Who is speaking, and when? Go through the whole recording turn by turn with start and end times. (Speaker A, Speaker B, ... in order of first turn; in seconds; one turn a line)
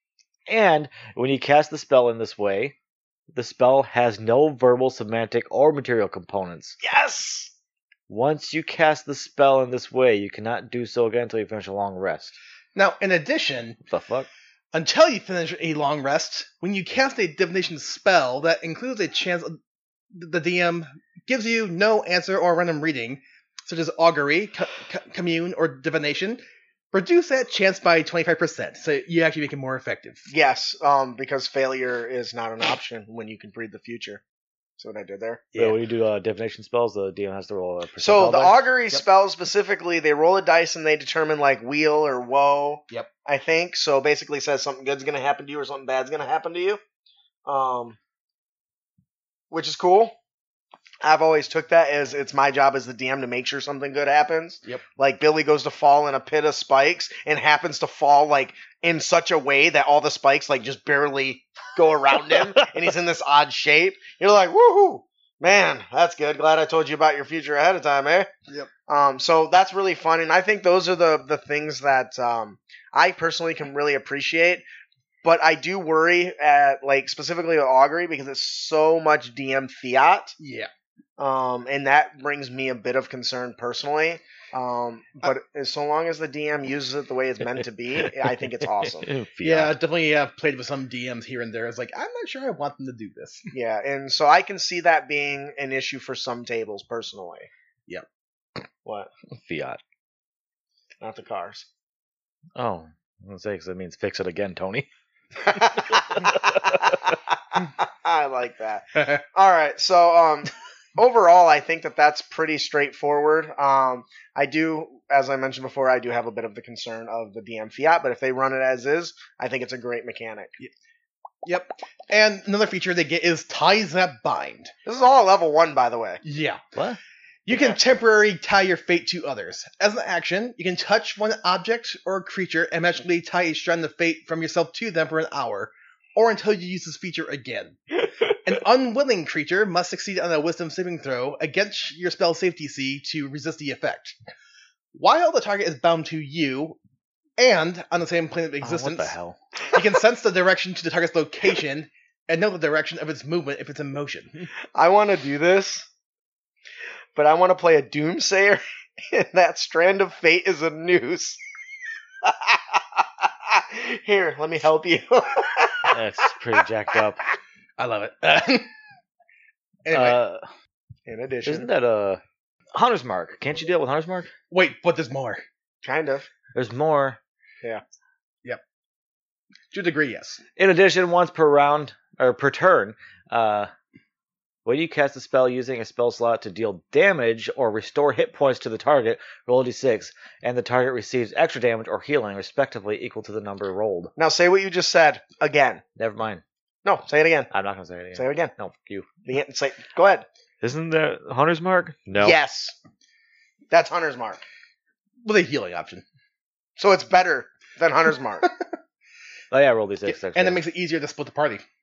Speaker A: 0.5-2.7
Speaker A: 3.3-6.8
Speaker B: 6.8-7.5
Speaker A: 8.1-12.3
Speaker C: 12.7-13.8
Speaker A: 13.9-14.3
Speaker C: 14.7-19.6
Speaker C: 20.1-26.4
Speaker C: 26.9-30.3
Speaker B: 30.3-34.2
Speaker B: 34.8-35.5
Speaker A: 35.5-38.6
Speaker B: 38.0-46.8
Speaker B: 47.5-48.0
Speaker B: 49.5-50.1
Speaker B: 51.0-68.3
Speaker B: 68.9-74.6
Speaker B: 75.2-80.3
Speaker C: 80.4-80.7
Speaker B: 81.2-89.1
Speaker A: 88.8-89.7
Speaker C: 89.4-93.5
Speaker B: 93.5-97.5
Speaker B: 98.8-99.1
Speaker A: 99.3-99.8
Speaker B: 101.0-101.7
Speaker A: 102.5-104.9
Speaker B: 105.4-107.0
Speaker A: 106.2-106.9
Speaker B: 107.5-120.5
Speaker C: 121.4-124.7
Speaker B: 124.8-126.2
Speaker C: 126.2-126.6
Speaker A: 126.7-127.0
Speaker C: 127.5-144.1
Speaker B: 127.5-127.8
Speaker C: 144.9-146.8
Speaker C: 147.4-149.1
Speaker A: 148.6-149.4
Speaker C: 149.7-154.5
Speaker B: 154.7-155.9
Speaker B: 157.1-161.4
Speaker B: 162.2-166.0
Speaker A: 165.9-167.2
Speaker C: 167.8-168.7
Speaker C: 169.8-170.2
Speaker A: 169.9-170.5
Speaker B: 171.1-171.7
Speaker A: 171.4-172.2
Speaker A: 172.7-174.3
Speaker C: 174.5-175.4
Speaker B: 175.8-176.3
Speaker A: 176.5-177.2
Speaker C: 179.7-180.4
Speaker A: 180.6-183.7
Speaker A: 184.6-194.1
Speaker B: 194.2-195.8
Speaker A: 195.9-196.4
Speaker B: 196.8-197.5
Speaker A: 197.5-199.1
Speaker B: 198.1-198.5
Speaker B: 199.2-200.2
Speaker A: 200.6-202.4
Speaker B: 202.2-202.7
Speaker B: 203.7-204.4
Speaker C: 205.2-206.0
Speaker B: 206.8-208.5
Speaker A: 209.5-210.6
Speaker C: 210.1-211.6